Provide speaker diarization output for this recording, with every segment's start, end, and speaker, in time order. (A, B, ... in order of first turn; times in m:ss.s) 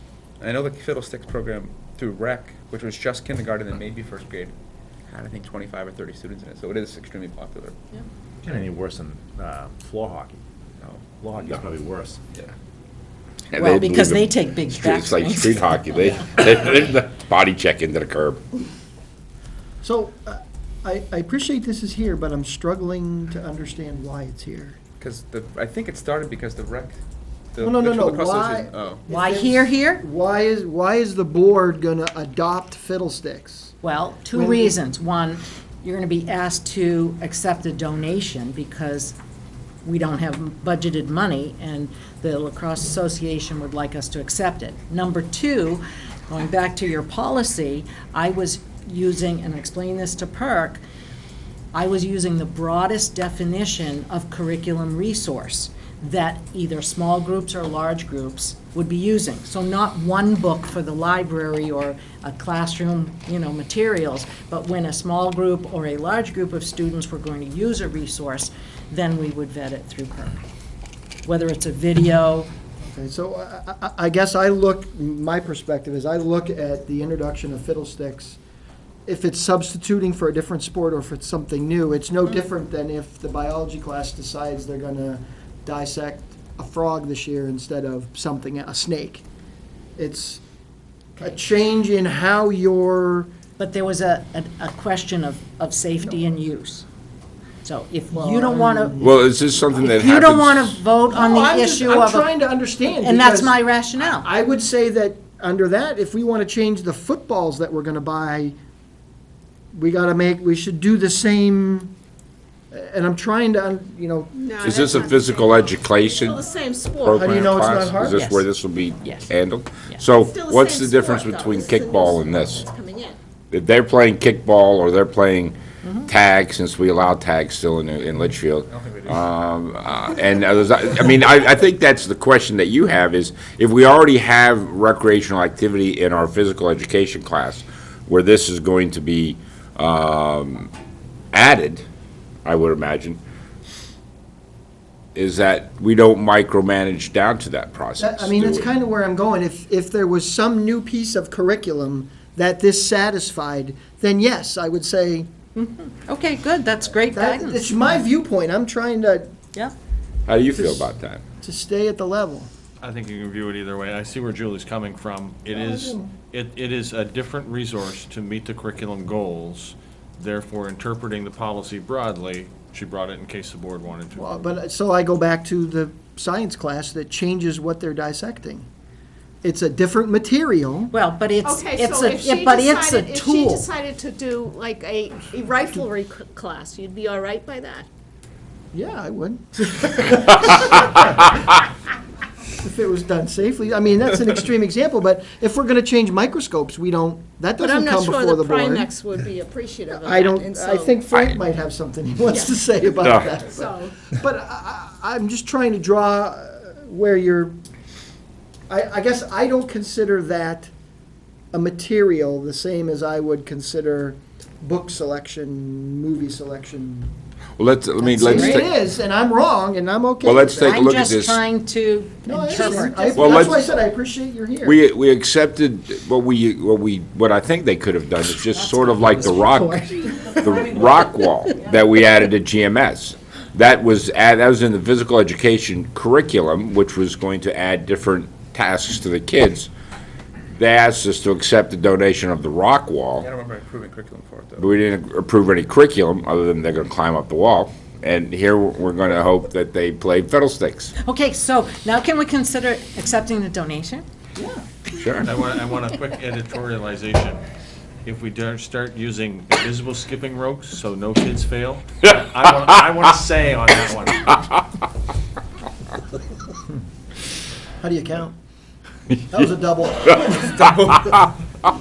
0:00.4-0:04.6 A
0:05.1-0:07.8 A
0:08.4-0:10.4 B
0:10.8-0:11.6 A
0:11.1-0:12.2 B
0:13.5-0:18.4 C
0:13.5-0:16.2 D
0:19.8-0:24.8 E
0:25.0-0:27.0 A
0:27.5-0:29.0 A
0:27.6-0:33.8 E
0:29.1-0:30.0 D
0:33.8-0:39.2 D
0:34.3-0:34.8 E
0:39.8-0:50.8 D
0:51.7-1:10.4 D
1:11.2-1:12.5 D
1:12.8-1:18.4 E
1:19.0-1:29.2 E
1:30.0-1:30.4 E
1:31.2-1:33.3 E
1:33.6-1:36.8 D
1:37.6-1:39.0 D
1:38.1-1:39.2 E
1:39.0-1:40.8 C
1:39.8-1:42.3 D
1:41.1-1:48.6 E
1:42.8-1:44.3 D
1:49.7-1:51.9 E
1:52.7-1:54.3 E
1:54.3-1:57.8 F
1:54.6-1:56.4 C
1:57.0-2:02.6 C
1:57.1-1:58.3 E
1:58.0-1:58.5 D
2:00.2-2:03.2 F
2:03.5-2:20.7 C
2:05.8-2:06.1 D
2:08.7-2:09.2 A
2:21.3-2:21.8 C
2:22.4-2:23.2 C
2:25.2-2:28.7 C
2:28.0-2:35.3 E
2:35.6-2:37.7 D
2:37.1-2:39.3 E
2:40.3-2:41.2 C
2:40.5-2:40.9 E
2:41.4-2:42.5 E
2:42.8-2:54.5 G
2:45.5-2:46.1 E
2:54.1-2:58.7 E
2:59.4-3:00.9 E
3:00.9-3:03.7 D
3:01.4-3:07.8 F
3:08.7-3:11.6 E
3:12.6-3:18.9 E
3:17.6-3:21.1 F
3:19.9-3:27.6 E
3:22.2-3:24.1 F
3:23.0-3:23.3 C
3:28.7-3:30.7 E
3:31.5-3:37.2 E
3:37.6-3:38.7 C
3:38.0-3:40.8 E
3:38.2-3:38.6 D
3:40.2-3:41.4 C
3:40.6-3:43.6 D
3:42.2-3:44.8 E
3:42.5-3:43.7 C
3:44.6-3:59.7 C
3:49.2-3:50.3 D
4:00.5-4:03.3 C
4:03.2-4:04.7 A
4:04.6-4:10.9 C
4:11.0-4:14.0 D
4:14.9-4:15.3 C
4:15.2-4:17.4 G
4:18.0-4:24.4 G
4:27.8-4:28.3 E
4:29.3-4:30.7 E
4:30.5-4:31.0 A